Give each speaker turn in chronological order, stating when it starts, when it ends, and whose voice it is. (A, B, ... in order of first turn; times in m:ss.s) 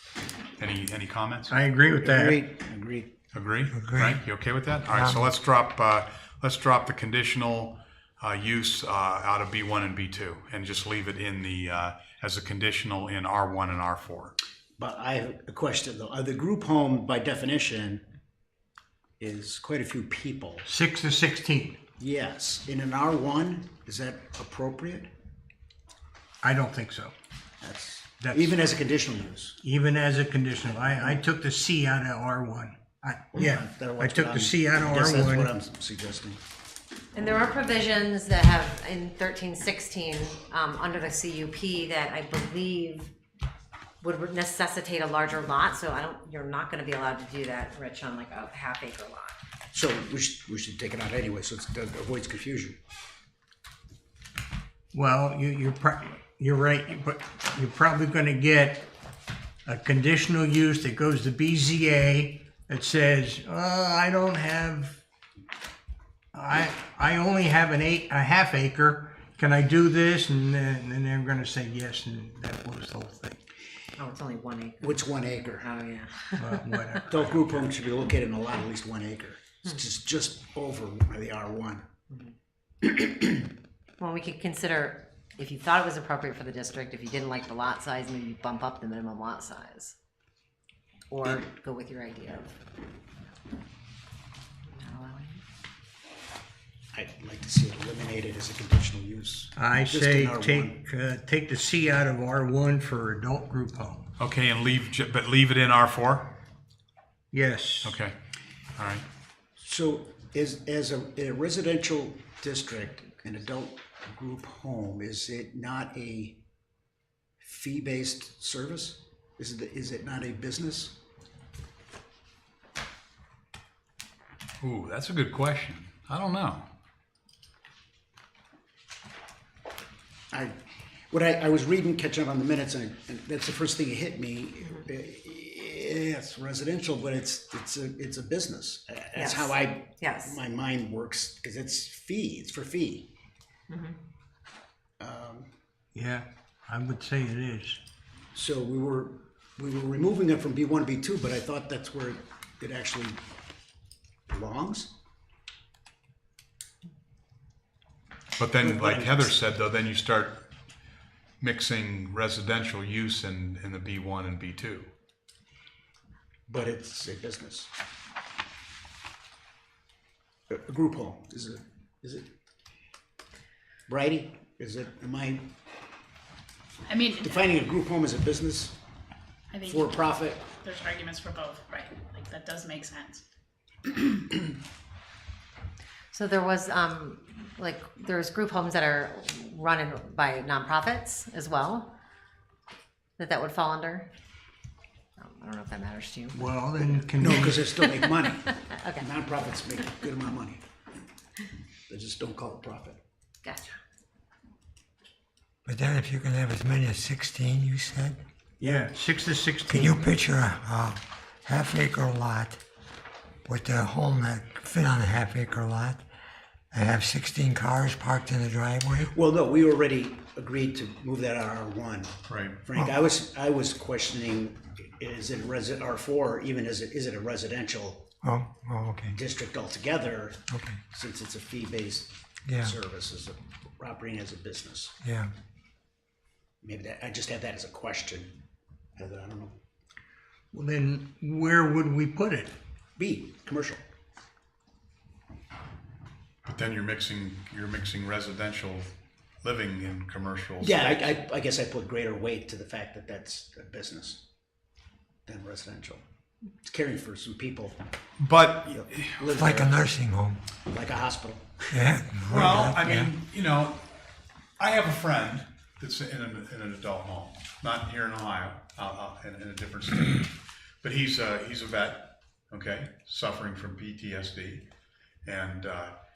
0:00.6-0:01.6 A
0:01.5-0:02.4 B
0:02.0-0:03.1 C
0:03.3-0:14.4 A
0:03.7-0:04.2 D
0:04.8-0:05.3 D
0:14.8-0:18.0 C
0:19.2-0:20.6 C
0:20.6-0:21.8 B
0:22.0-0:25.1 C
0:26.4-0:27.1 B
0:27.6-0:29.6 C
0:28.2-0:28.5 B
0:29.6-0:35.5 B
0:33.3-0:36.4 C
0:37.1-0:43.1 E
0:44.0-0:49.4 E
0:49.7-0:52.8 C
0:54.9-0:58.9 B
0:59.6-1:05.0 B
1:06.3-1:13.4 B
1:14.0-1:15.1 E
1:14.8-1:15.7 C
1:15.6-1:16.7 E
1:16.4-1:17.4 B
1:17.1-1:21.9 C
1:22.8-1:23.3 C
1:24.0-1:30.0 E
1:31.1-1:32.6 E
1:34.7-1:35.4 E
1:36.9-1:40.8 C
1:39.6-1:44.1 B
1:44.2-1:46.3 A
1:47.3-1:48.0 B
1:47.8-1:48.2 A
1:48.8-1:49.0 A
1:49.6-1:56.4 C
1:57.4-2:01.0 C
2:04.6-2:06.7 A
2:10.3-2:10.6 C
2:11.1-2:23.1 C
2:19.2-2:20.4 E
2:23.7-2:24.0 E
2:25.0-2:25.5 C
2:25.9-2:27.8 B
2:28.3-2:33.2 C
2:34.3-2:34.9 C
2:38.4-2:40.4 A
2:38.6-2:39.3 C
2:41.4-2:44.9 A
2:46.5-2:47.7 C
2:50.5-2:52.3 C
2:53.9-2:55.5 C
2:56.9-2:57.4 F
2:57.2-2:58.8 C
2:59.5-3:00.0 F
2:59.6-3:00.4 C
3:00.6-3:03.2 F
3:03.9-3:04.2 F
3:06.1-3:11.9 E
3:13.2-3:14.1 E
3:15.2-3:16.4 E
3:16.3-3:17.9 B
3:17.2-3:20.6 C
3:18.0-3:19.1 E
3:21.9-3:23.0 C
3:23.4-3:23.7 E
3:25.7-3:28.2 D
3:28.6-3:30.1 B
3:29.7-3:32.6 D
3:33.5-3:36.0 D
3:36.7-3:39.1 D
3:39.1-3:48.1 C
3:42.3-3:42.6 A
3:48.2-3:49.2 D
3:49.1-3:54.9 C
3:50.5-3:50.8 D
3:52.5-3:52.7 D
3:55.0-3:55.3 D
3:56.6-3:58.4 C
3:59.0-3:59.6 C
4:00.5-4:02.5 B
4:03.0-4:03.8 C
4:06.4-4:11.1 A
4:10.6-4:14.2 C
4:15.2-4:16.0 C
4:16.6-4:17.8 C
4:18.2-4:19.3 A
4:18.7-4:19.9 C
4:19.4-4:20.4 D
4:20.7-4:21.8 C
4:21.7-4:23.1 D
4:22.3-4:23.8 A
4:24.6-4:34.7 A
4:35.2-4:35.9 A